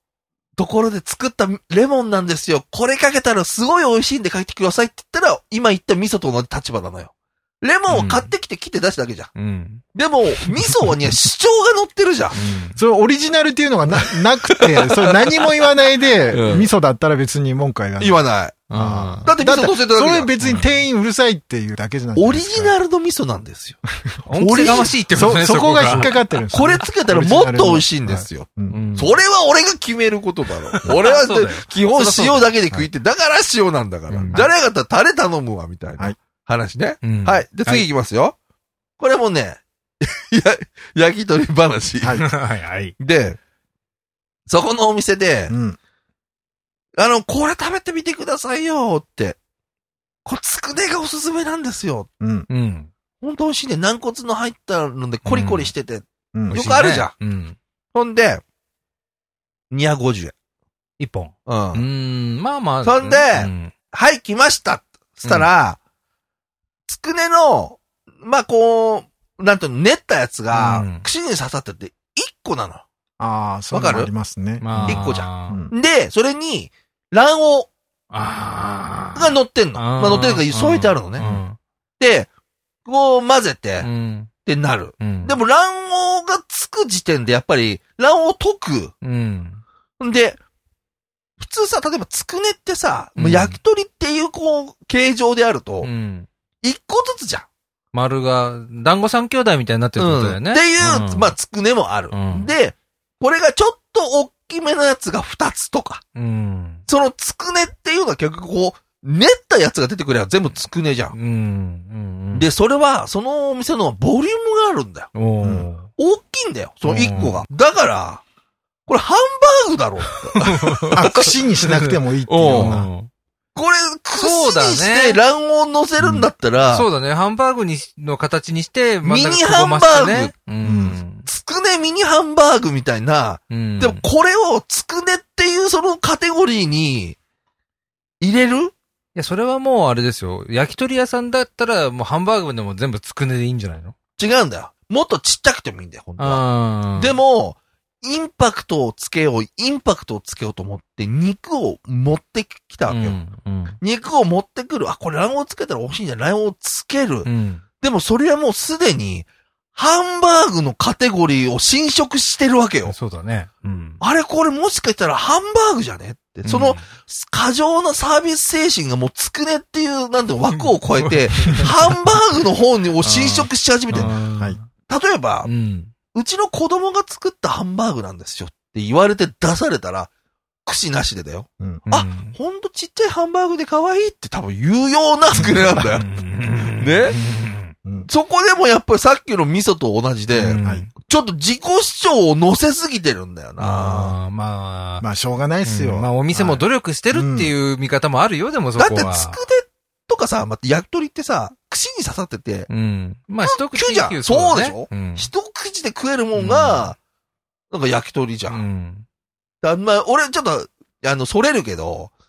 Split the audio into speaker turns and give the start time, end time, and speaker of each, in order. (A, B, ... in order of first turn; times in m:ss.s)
0:00.6-0:09.3 A
0:07.9-0:08.3 B
0:09.3-0:09.8 B
0:09.9-0:12.4 A
0:12.3-0:12.8 B
0:12.8-0:22.7 C
0:16.3-0:16.7 A
0:18.0-0:18.6 A
0:18.7-0:19.3 B
0:19.2-0:20.6 A
0:20.4-0:20.7 B
0:22.2-0:23.8 A
0:24.1-0:28.8 C
0:24.3-0:26.2 B
0:24.3-0:24.9 A
0:26.5-0:38.3 A
0:28.7-0:29.2 B
0:30.7-0:32.5 B
0:34.1-0:34.5 B
0:37.0-0:37.8 B
0:39.0-0:42.3 A
0:42.2-0:42.9 B
0:43.0-0:43.4 A
0:44.5-0:45.5 A
0:45.5-0:45.8 C
0:47.0-0:49.4 A
0:50.2-0:52.1 A
0:52.2-0:52.5 C
0:52.5-0:52.9 B
0:53.2-0:57.1 A
0:55.2-0:55.7 B
0:56.3-0:56.6 C
0:56.5-0:57.6 B
0:57.9-0:58.4 A
0:59.7-1:00.3 A
1:01.0-1:03.7 B
1:01.4-1:01.8 A
1:02.8-1:05.8 A
1:05.2-1:05.5 B
1:06.9-1:12.8 A
1:10.5-1:11.1 B
1:13.2-1:15.7 C
1:13.7-1:14.1 A
1:14.6-1:15.6 B
1:14.8-1:17.7 A
1:18.1-1:21.6 B
1:19.1-1:21.3 A
1:22.0-1:22.3 A
1:22.8-1:23.9 A
1:23.8-1:24.3 B
1:24.4-1:28.9 A
1:25.0-1:25.4 B
1:29.0-1:29.6 B
1:30.0-1:30.4 A
1:31.4-1:35.9 A
1:33.2-1:33.6 B
1:35.8-1:36.3 B
1:36.6-1:37.5 A
1:37.9-1:41.3 B
1:40.0-1:46.0 A
1:42.1-1:42.5 B
1:46.1-1:46.8 B
1:46.9-1:51.1 A
1:51.1-1:52.5 B
1:52.3-1:55.1 A
1:55.1-1:55.9 B
1:56.0-1:58.2 A
1:56.9-1:57.4 B
1:57.0-1:57.3 C
1:58.9-2:01.3 A
2:00.0-2:03.1 B
2:00.9-2:02.9 C
2:02.3-2:02.8 A
2:03.5-2:06.9 A
2:04.2-2:05.2 B
2:06.7-2:11.3 B
2:09.0-2:10.3 A
2:10.6-2:11.0 C
2:11.2-2:17.2 A
2:13.5-2:14.0 B
2:18.2-2:18.7 A
2:19.1-2:23.9 B
2:24.2-2:26.4 A
2:26.2-2:27.2 B
2:26.9-2:33.2 A
2:32.9-2:33.8 B
2:33.8-2:37.3 A
2:37.2-2:37.6 B
2:37.8-2:42.9 A
2:42.8-2:44.0 B
2:44.0-2:54.1 A
2:46.4-2:46.9 B
2:50.5-2:52.2 B
2:53.0-2:54.7 B
2:54.0-2:54.6 C
2:54.9-2:55.5 A
2:55.4-2:55.9 B
2:56.1-3:00.1 A
3:00.6-3:06.1 A
3:01.9-3:02.3 B
3:05.4-3:07.7 B
3:06.7-3:07.2 A
3:08.1-3:14.1 A
3:10.3-3:10.9 B
3:10.6-3:10.9 C
3:13.6-3:15.0 B
3:15.0-3:17.5 C
3:15.6-3:19.4 B
3:18.8-3:22.7 A
3:22.7-3:25.3 B
3:23.4-3:27.0 A
3:26.3-3:26.9 B
3:27.7-3:28.6 A
3:28.5-3:29.0 B
3:29.6-3:32.1 A